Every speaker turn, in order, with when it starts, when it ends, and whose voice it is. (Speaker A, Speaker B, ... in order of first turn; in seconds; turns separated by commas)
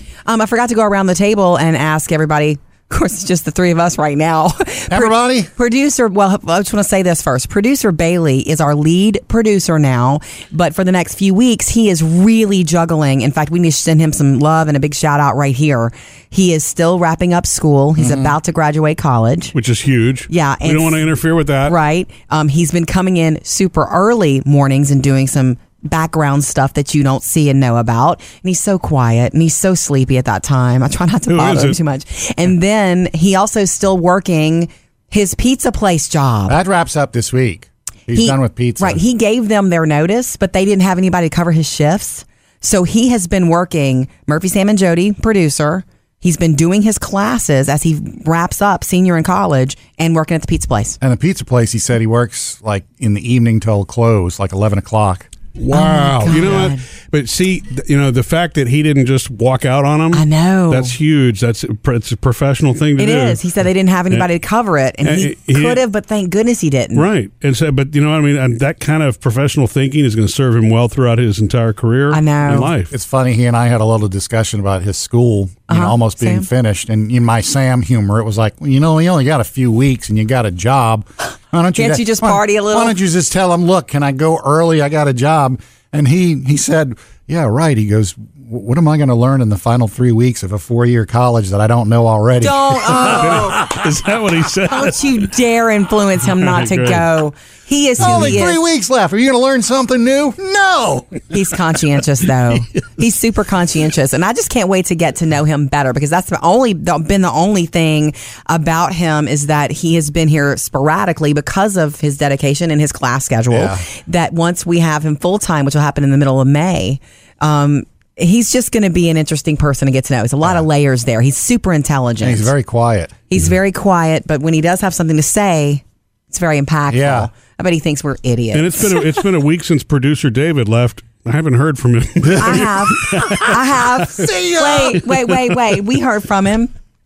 Speaker A: 0.2-19.5, Speaker B: 4.9-5.5, Speaker B: 18.0-18.3, Speaker C: 19.5-21.8, Speaker A: 20.3-21.1, Speaker A: 21.6-36.6, Speaker C: 31.3-31.8, Speaker B: 36.5-39.0, Speaker A: 38.1-51.0, Speaker B: 51.0-55.3, Speaker C: 55.5-63.4, Speaker A: 55.7-56.8, Speaker A: 60.1-60.9, Speaker A: 63.0-67.1, Speaker C: 65.0-65.8, Speaker C: 66.9-72.9, Speaker A: 72.1-72.7, Speaker B: 72.9-93.6, Speaker A: 75.7-76.5, Speaker A: 81.8-83.0, Speaker A: 92.4-93.6, Speaker C: 93.2-95.1, Speaker A: 94.7-98.6, Speaker C: 96.3-97.1, Speaker B: 98.0-101.2, Speaker A: 101.3-122.5, Speaker B: 113.5-113.8, Speaker B: 122.2-123.2, Speaker A: 123.3-129.1, Speaker B: 126.9-127.3, Speaker C: 128.5-134.2, Speaker A: 132.4-136.7, Speaker B: 134.2-135.1